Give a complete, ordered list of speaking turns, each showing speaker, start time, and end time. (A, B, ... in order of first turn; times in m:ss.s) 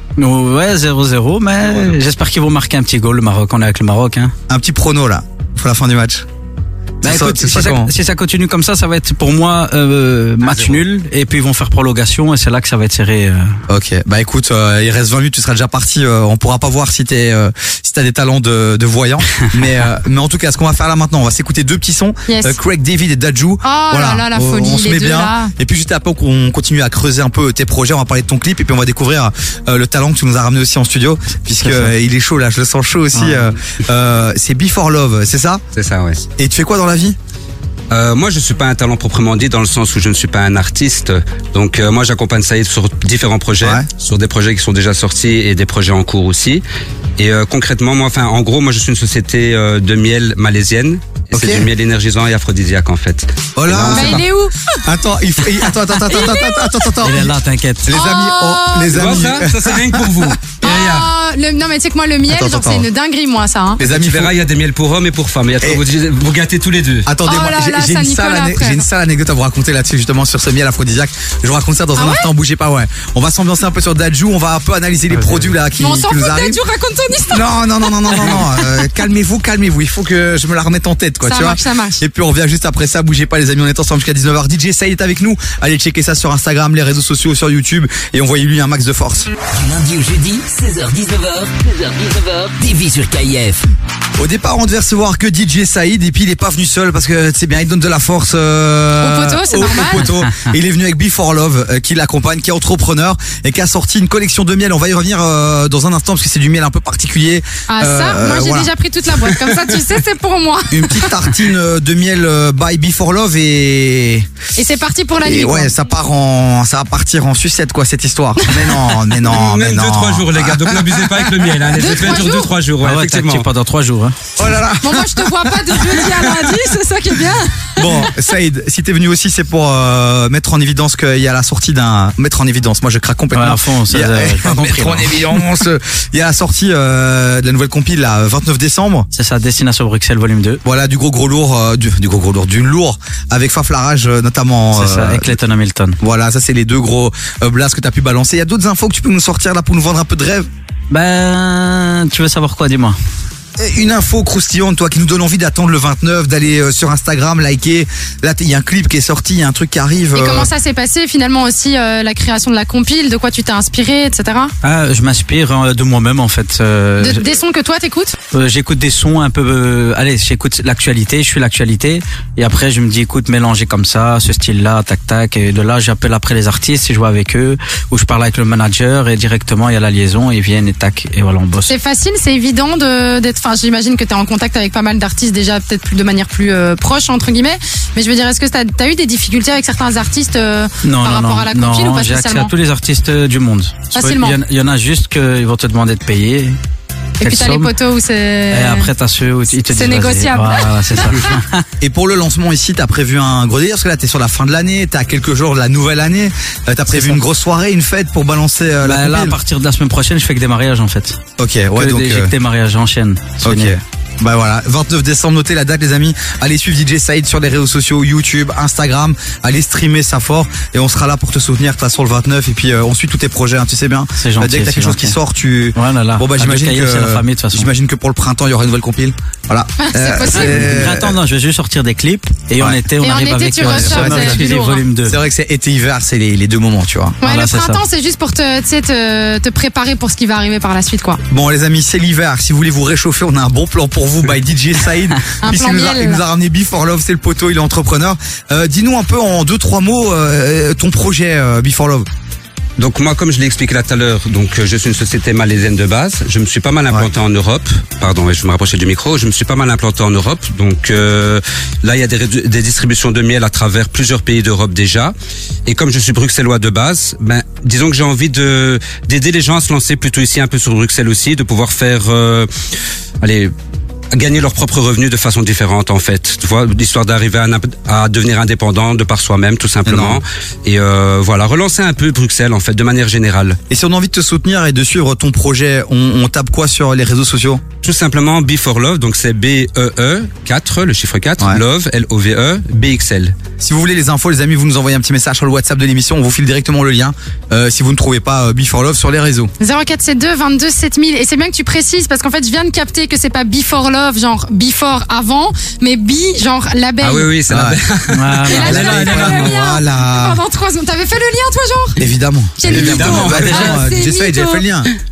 0:00.2-0:04.3 A
0:04.5-0:06.2 B
0:07.0-0:07.9 B
0:07.0-0:13.5 A
0:10.4-0:10.8 C
0:13.7-0:35.6 B
0:22.3-0:22.6 D
0:23.6-0:25.5 D
0:31.6-0:31.9 A
0:33.1-0:33.5 A
0:35.7-0:36.2 C
0:36.4-0:37.2 B
0:37.9-0:46.6 C
0:43.6-0:43.8 B
0:47.2-0:54.2 C
0:51.3-0:51.7 B
0:53.6-0:54.2 B
0:53.9-0:54.6 D
0:54.8-1:00.3 B
0:56.1-0:56.9 D
0:57.0-0:57.9 A
0:57.9-0:59.2 D
0:58.9-1:01.1 C
1:00.6-1:03.8 D
1:02.3-1:02.9 B
1:03.8-1:04.3 B
1:03.8-1:07.1 C
1:07.0-1:16.6 B
1:07.2-1:08.8 D
1:12.0-1:12.3 D
1:15.7-1:18.7 D
1:17.3-1:29.3 B
1:21.2-1:22.0 D
1:29.5-1:33.7 E
1:34.2-1:48.7 B
1:39.0-1:40.1 D
1:40.2-1:40.5 A
1:47.7-1:51.1 D
1:50.7-1:54.3 B
1:54.6-1:55.7 D
1:55.2-2:01.5 B
1:58.4-1:59.0 D
1:59.2-2:03.4 C
2:01.7-2:02.5 D
2:02.8-2:04.2 A
2:04.4-2:06.4 B
2:04.8-2:08.1 D
2:07.8-2:19.1 B
2:13.3-2:15.3 A
2:19.1-2:20.6 A
2:20.6-2:25.3 B
2:24.7-2:26.0 A
2:26.0-2:30.5 B
2:30.9-2:33.0 A
2:33.6-2:40.5 B
2:40.1-2:44.5 D
2:44.6-2:47.2 A
2:47.0-2:48.2 D
2:48.3-3:01.7 A
3:01.7-3:12.5 D
3:10.8-3:16.6 A
3:13.9-3:14.4 D
3:17.2-3:18.9 D
3:17.2-3:17.7 A
3:18.5-3:21.6 A
3:19.7-3:21.2 D
3:21.8-3:29.4 B
3:26.9-3:27.2 A
3:28.8-3:31.2 A
3:31.4-3:32.3 B
3:31.7-3:33.7 A
3:33.4-3:51.1 B
3:44.2-3:45.2 A
3:45.7-3:47.7 A
3:49.8-3:50.5 D
3:50.3-3:55.2 A
3:53.0-3:54.8 D
3:53.6-3:57.2 B
3:57.2-4:01.2 D
3:57.2-3:57.8 A
4:01.3-4:12.0 B
4:05.4-4:06.2 D
4:12.8-4:25.1 C
4:25.6-4:32.5 C
4:33.2-4:33.5 C
4:34.1-4:43.6 C
4:39.8-4:40.2 B
4:43.7-4:47.6 B
4:47.8-4:53.3 C
4:53.6-4:59.5 B
4:59.6-5:07.3 D
5:07.0-5:09.3 C
5:07.5-5:07.8 B
5:08.1-5:09.5 A
5:08.5-5:12.0 D
5:08.5-5:10.4 B
5:12.0-5:14.9 B
5:12.6-5:14.6 D
5:12.7-5:13.6 C
5:13.1-5:13.8 A